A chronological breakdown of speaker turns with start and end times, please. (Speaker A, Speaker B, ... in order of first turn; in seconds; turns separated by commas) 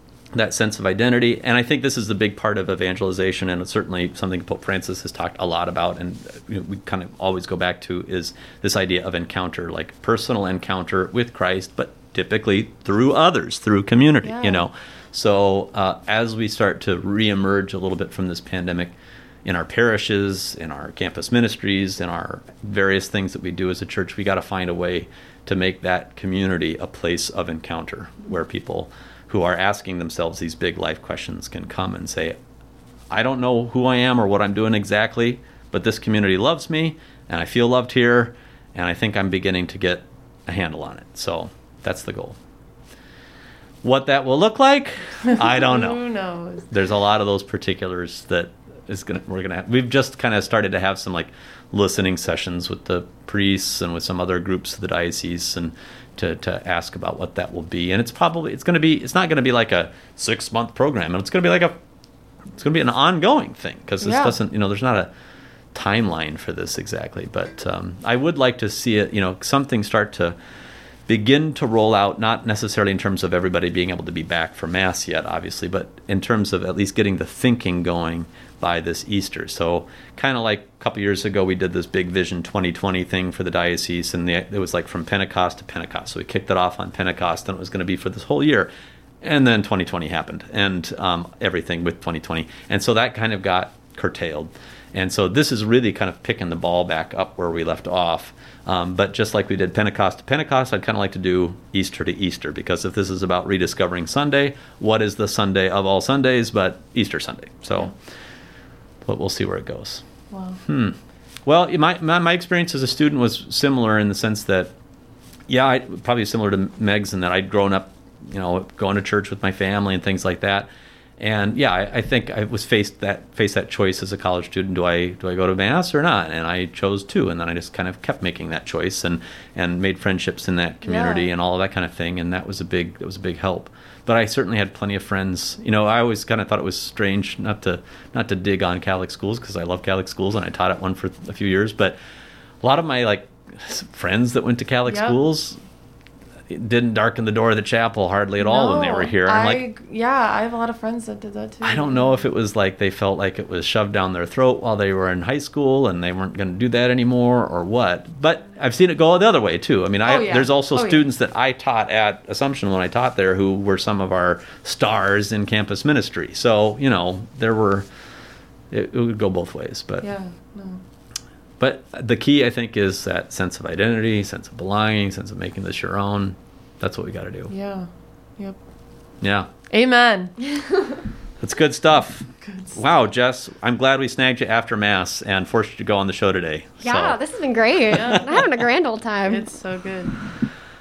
Speaker A: 0.3-32.4, Speaker B: 14.2-14.7, Speaker A: 33.1-42.4, Speaker A: 43.8-46.0, Speaker B: 45.4-46.7, Speaker A: 46.7-61.8, Speaker A: 62.5-65.1, Speaker B: 64.0-64.4, Speaker A: 65.7-70.4, Speaker A: 71.1-88.7, Speaker A: 89.2-107.9, Speaker A: 109.0-110.0, Speaker B: 110.3-110.6, Speaker A: 110.6-114.7, Speaker A: 115.5-142.0, Speaker B: 130.9-131.2, Speaker A: 142.6-145.6, Speaker B: 144.9-145.2, Speaker A: 146.5-149.6, Speaker B: 148.4-152.2, Speaker A: 151.6-167.9, Speaker B: 160.1-161.0, Speaker A: 168.7-170.1, Speaker B: 170.0-170.8, Speaker A: 171.6-177.5, Speaker B: 177.5-178.6, Speaker A: 179.2-179.5, Speaker B: 179.7-180.4, Speaker A: 181.4-187.2, Speaker B: 182.4-182.8, Speaker C: 186.8-189.5, Speaker B: 187.9-188.2, Speaker A: 188.2-188.4, Speaker B: 189.3-190.2